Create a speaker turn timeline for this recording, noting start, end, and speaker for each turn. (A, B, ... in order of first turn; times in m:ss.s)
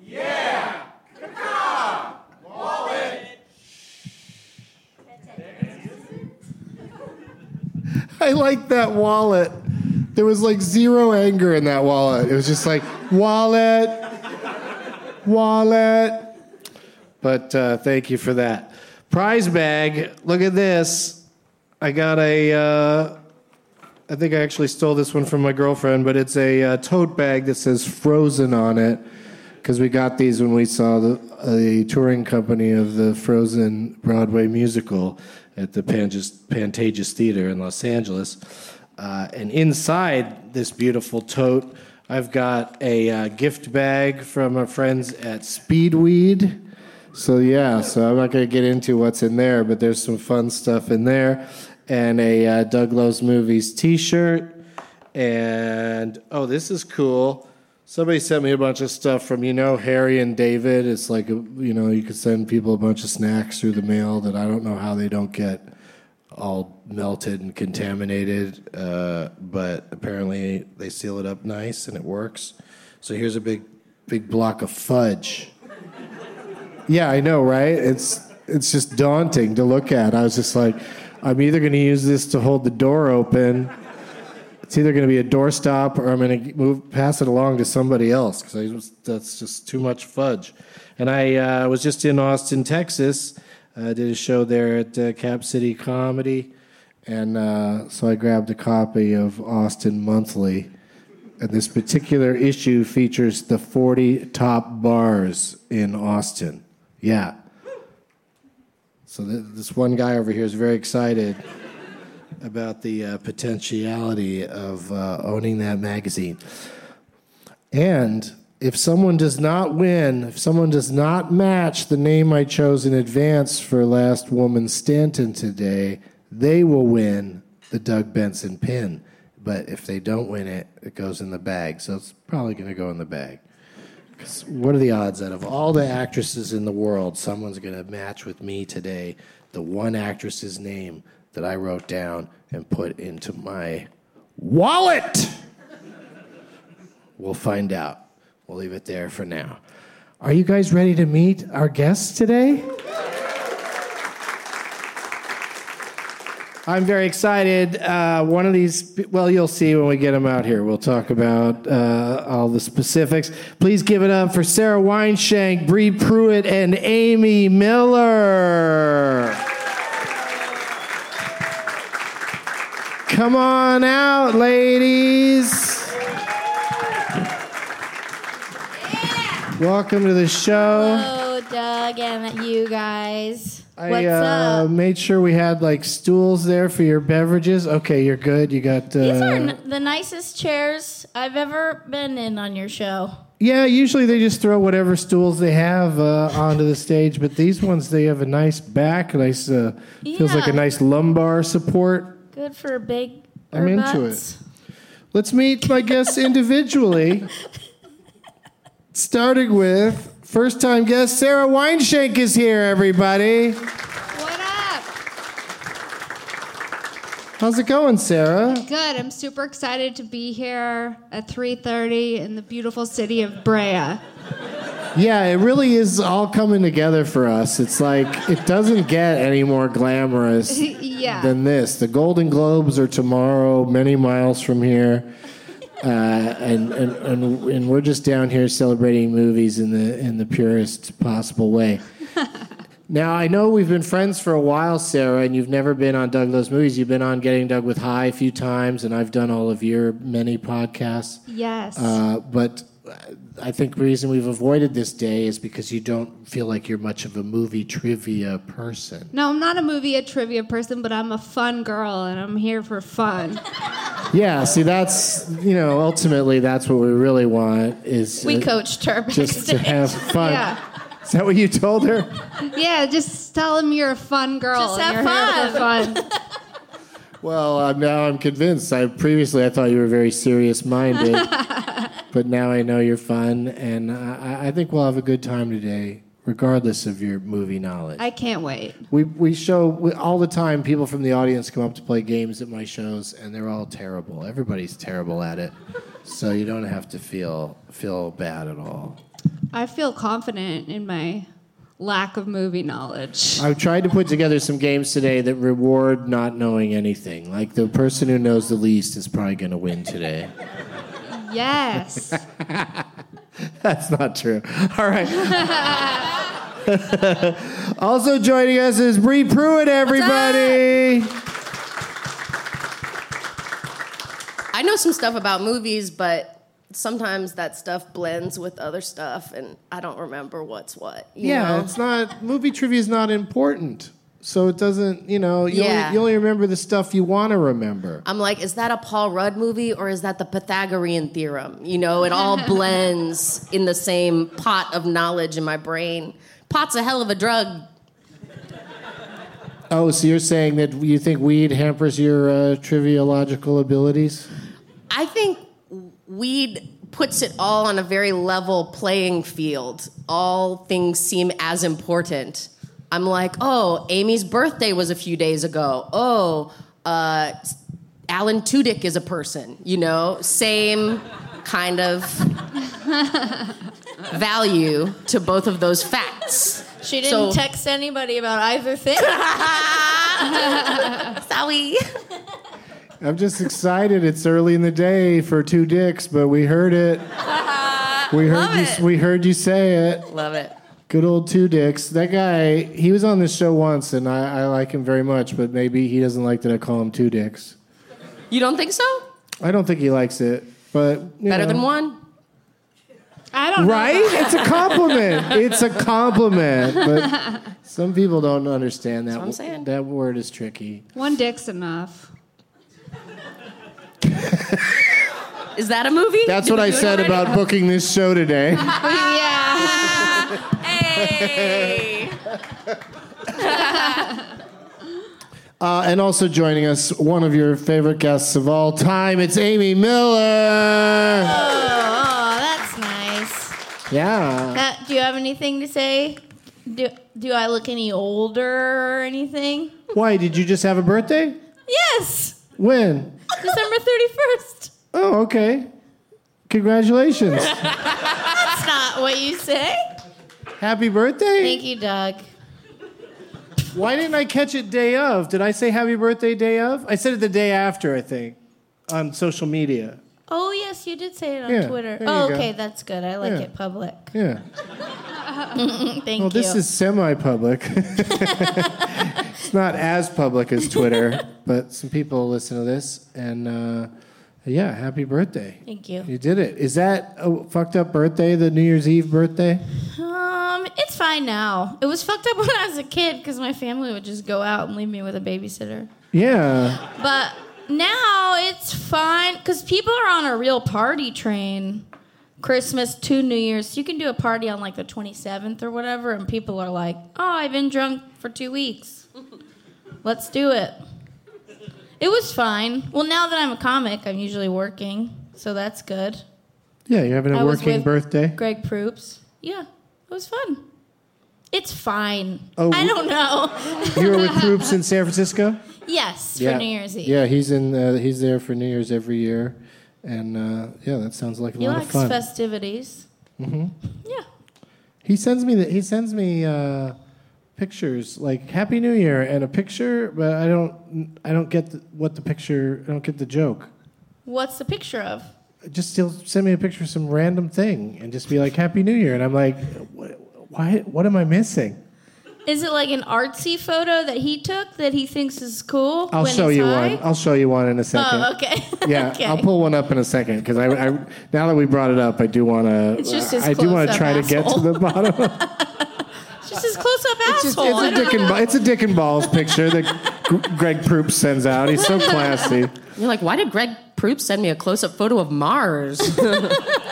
0:08.2-0:14.4 A
0:15.2-0:16.4 A
0:17.2-0:21.2 A
0:21.8-0:23.2 A
0:24.1-0:29.0 A
0:29.6-0:38.4 A
0:39.0-0:46.6 A
0:47.1-0:54.6 A
0:55.1-1:05.7 A
1:06.3-1:15.5 A
1:16.9-1:23.7 A
1:24.7-1:36.5 A
1:37.1-1:40.7 A
1:41.4-1:47.4 A
1:49.1-1:51.4 A
1:52.4-1:56.4 A
1:57.7-2:13.4 A
2:14.2-2:25.4 A
2:27.2-2:29.6 A
2:30.2-2:32.8 A
2:36.7-2:49.4 A
2:53.1-2:56.0 A
2:59.5-3:01.1 A
3:00.5-3:04.7 B
3:03.8-3:09.6 A
3:09.0-3:13.2 B
3:13.4-3:22.2 A
3:20.0-3:20.6 B
3:22.3-3:24.4 B
3:23.5-3:24.2 A
3:25.1-3:27.3 A
3:28.9-3:33.7 A
3:34.1-3:34.9 C
3:37.4-3:38.7 A
3:38.6-3:44.0 C
3:45.0-3:55.1 A
3:50.5-3:51.3 C
3:55.8-4:01.8 A
4:02.9-4:11.2 A
4:11.3-4:12.0 C
4:11.8-4:19.1 A
4:19.1-4:23.4 C
4:24.1-4:28.5 A
4:28.2-4:30.6 B
4:29.1-4:32.3 A
4:30.2-4:30.6 C
4:32.5-4:36.0 C
4:34.5-4:36.1 B
4:37.2-4:41.4 A
4:41.1-4:41.9 C
4:42.1-4:48.1 A
4:48.0-4:48.8 C
4:48.9-4:59.0 A
4:59.5-5:01.3 C
5:01.8-5:03.5 C
5:03.4-5:10.3 A
5:11.1-5:12.2 C
5:12.2-5:12.9 A
5:13.5-5:15.9 A
5:15.3-5:16.1 C
5:16.6-5:21.2 A
5:24.5-5:31.7 D
5:31.2-5:38.0 A
5:35.5-5:36.0 D
5:38.0-5:47.7 D
5:49.7-5:54.3 A
5:54.9-6:07.6 D
6:08.1-6:12.4 D
6:13.1-6:13.5 C
6:14.1-6:17.4 D
6:16.8-6:19.5 B
6:19.2-6:20.1 D
6:21.1-6:21.8 D
6:23.0-6:27.0 A
6:28.1-6:30.1 A
6:28.2-6:28.8 D
6:30.1-6:30.5 D
6:30.9-6:37.6 A
6:38.3-6:39.1 D
6:39.4-6:41.7 A
6:41.3-6:42.0 D
6:43.3-6:44.7 C
6:43.6-6:50.9 A
6:49.1-6:49.6 D
6:51.0-6:52.1 C
6:54.0-6:54.8 A
6:55.6-6:57.4 D
6:56.2-6:58.8 A
6:58.7-7:00.4 C
7:00.6-7:02.1 D
7:01.0-7:01.8 A
7:05.6-7:11.5 A
7:11.2-7:13.6 B
7:13.9-7:14.6 A
7:14.5-7:19.8 B
7:19.9-7:21.4 A
7:21.7-7:22.4 B
7:22.6-7:23.2 A
7:23.4-7:24.7 B
7:24.9-7:25.7 A
7:26.5-7:27.7 A
7:28.1-7:29.8 B
7:30.6-7:31.6 A
7:31.4-7:32.3 B
7:33.7-7:40.0 A
7:40.3-7:44.1 B
7:41.5-7:42.5 A
7:43.2-7:43.5 A
7:44.1-7:44.4 A
7:45.5-7:46.6 B
7:46.2-7:53.9 A
7:54.4-7:59.6 A
7:55.7-7:56.1 B
7:59.9-8:05.9 B
8:06.1-8:06.8 A
8:06.9-8:11.9 B
8:12.4-8:19.0 B
8:20.0-8:20.8 B
8:22.0-8:26.2 B
8:26.9-8:28.4 A
8:27.3-8:30.6 B
8:31.5-8:34.4 B
8:32.6-8:33.0 A
8:33.8-8:35.6 A
8:35.9-8:37.2 B
8:36.4-8:42.2 A
8:41.6-8:43.1 B
8:43.4-8:43.8 A
8:45.0-8:47.0 A
8:47.6-8:53.7 A
8:54.3-8:55.3 B
8:55.6-9:01.8 A
9:02.5-9:07.0 B
9:06.1-9:08.3 A
9:07.9-9:09.5 B
9:08.8-9:15.7 A
9:13.0-9:14.8 B
9:16.4-9:18.4 B
9:17.2-9:22.8 A
9:23.0-9:26.6 D